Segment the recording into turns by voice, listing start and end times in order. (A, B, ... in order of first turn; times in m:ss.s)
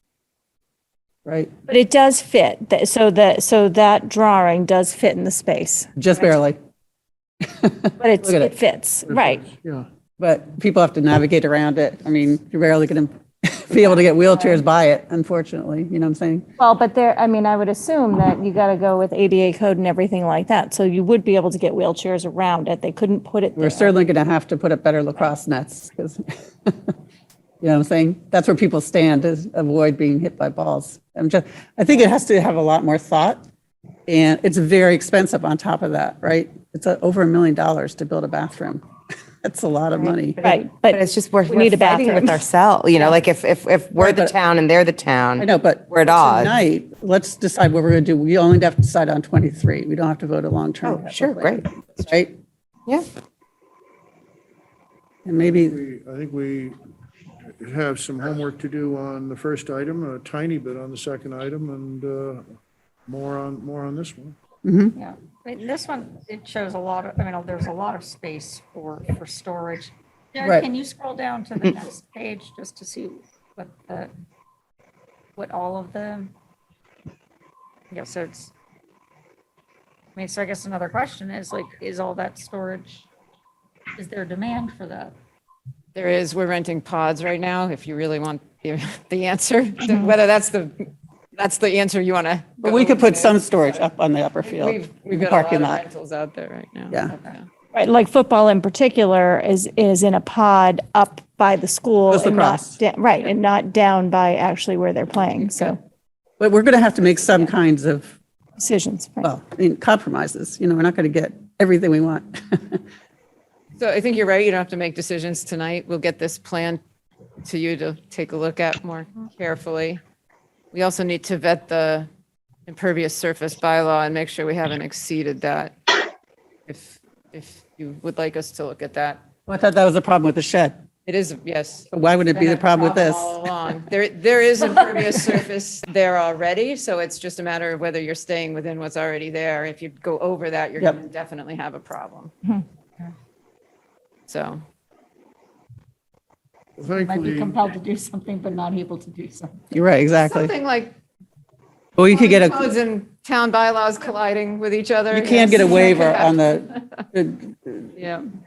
0:01.2-0:01.5 A
0:01.7-0:05.9 B
0:06.0-0:06.6 A
0:07.4-0:08.5 A
0:08.0-0:09.5 B
0:09.0-0:09.9 C
0:10.2-0:16.4 A
0:16.6-0:24.0 B
0:23.6-0:26.9 A
0:27.6-0:33.4 A
0:34.1-0:38.8 A
0:39.4-0:40.4 A
0:40.0-0:43.2 B
0:40.4-0:46.6 D
0:44.0-0:44.3 A
0:45.4-0:52.4 A
0:50.8-0:51.6 D
0:55.2-0:55.8 A
0:55.5-0:56.8 C
0:57.5-1:04.4 C
1:04.6-1:04.9 A
1:05.0-1:14.1 E
1:10.4-1:10.7 A
1:15.4-1:16.3 E
1:17.9-1:18.5 E
1:20.2-1:23.1 E
1:24.0-1:25.1 E
1:25.9-1:30.8 F
1:31.3-1:33.8 F
1:32.6-1:35.8 A
1:34.4-1:37.5 F
1:37.7-1:45.8 B
1:42.1-1:42.8 A
1:45.3-1:45.8 F
1:46.4-1:48.2 A
1:48.6-1:49.3 B
1:49.2-1:52.8 A
1:53.8-1:56.8 F
1:57.4-2:00.0 F
2:00.7-2:02.1 F
2:02.7-2:06.0 F
2:06.7-2:09.2 F
2:09.5-2:10.8 A
2:11.0-2:22.3 F
2:11.9-2:13.3 A
2:24.3-2:24.6 F
2:26.8-2:27.6 C
2:27.0-2:29.6 E
2:29.7-2:30.5 A
2:30.2-2:31.0 F
2:32.0-2:32.7 A
2:32.0-2:37.0 F
2:35.1-2:37.9 A
2:35.6-2:35.9 E
2:38.0-2:38.3 F